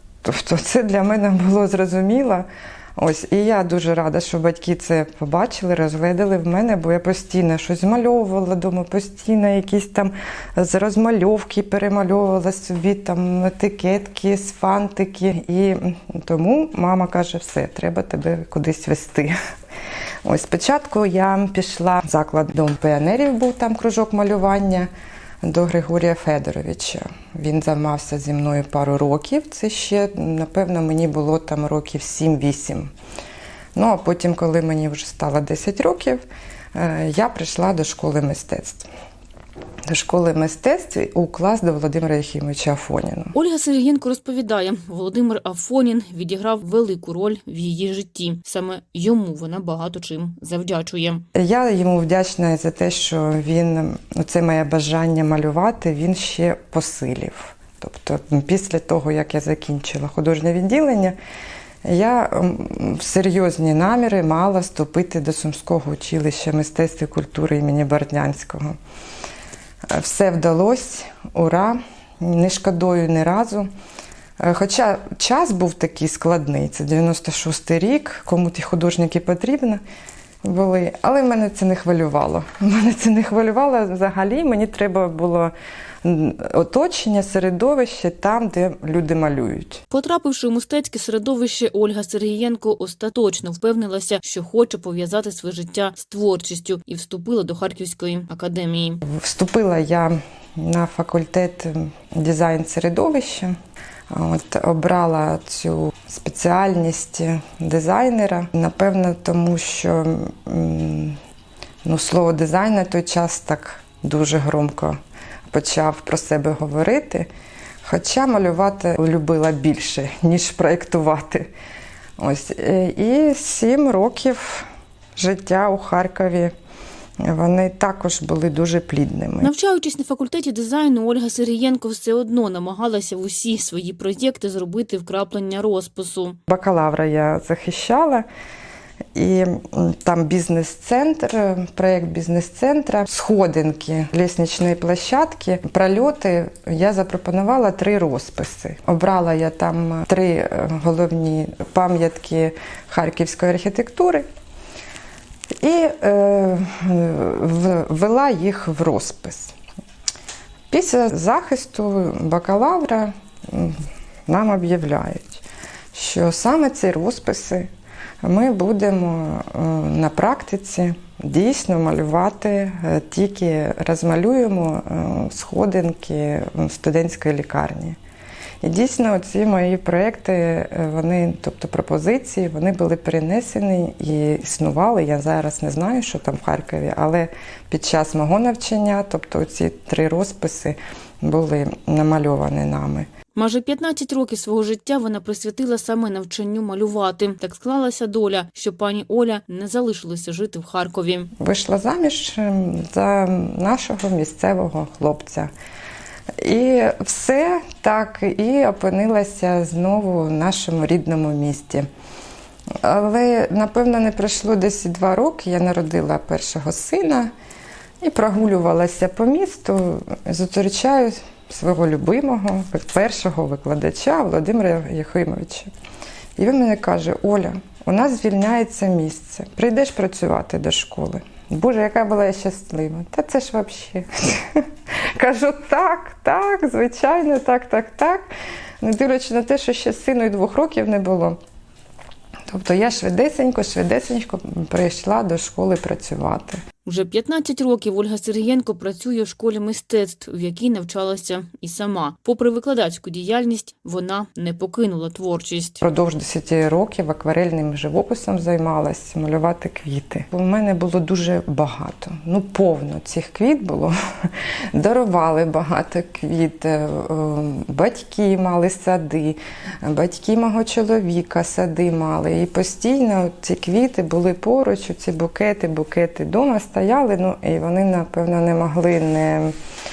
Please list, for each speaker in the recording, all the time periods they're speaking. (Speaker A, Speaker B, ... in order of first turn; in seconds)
Speaker A: 0.2-19.4, 20.2-24.9, 25.4-32.9, 33.8-36.2, 36.8-38.9, 39.9-43.3, 51.4-61.2, 61.9-68.8, 69.9-73.7, 74.4-79.8, 80.5-85.5, 86.0-89.8, 99.1-103.5, 104.1-111.2, 111.8-115.0, 115.5-117.3, 117.8-121.5, 122.2-126.5, 127.2-129.5, 136.5-138.3, 139.2-154.3, 155.6-159.5, 160.7-167.7, 168.2-178.0, 178.6-193.1, 201.4-205.5, 206.4-211.9, 212.8-217.3, 218.0-225.7, 226.4-238.2, 238.8-241.4, 242.5-246.6, 255.8-279.5
Speaker B: 43.3-51.2, 89.9-99.0, 129.4-136.4, 193.3-201.3, 246.8-255.8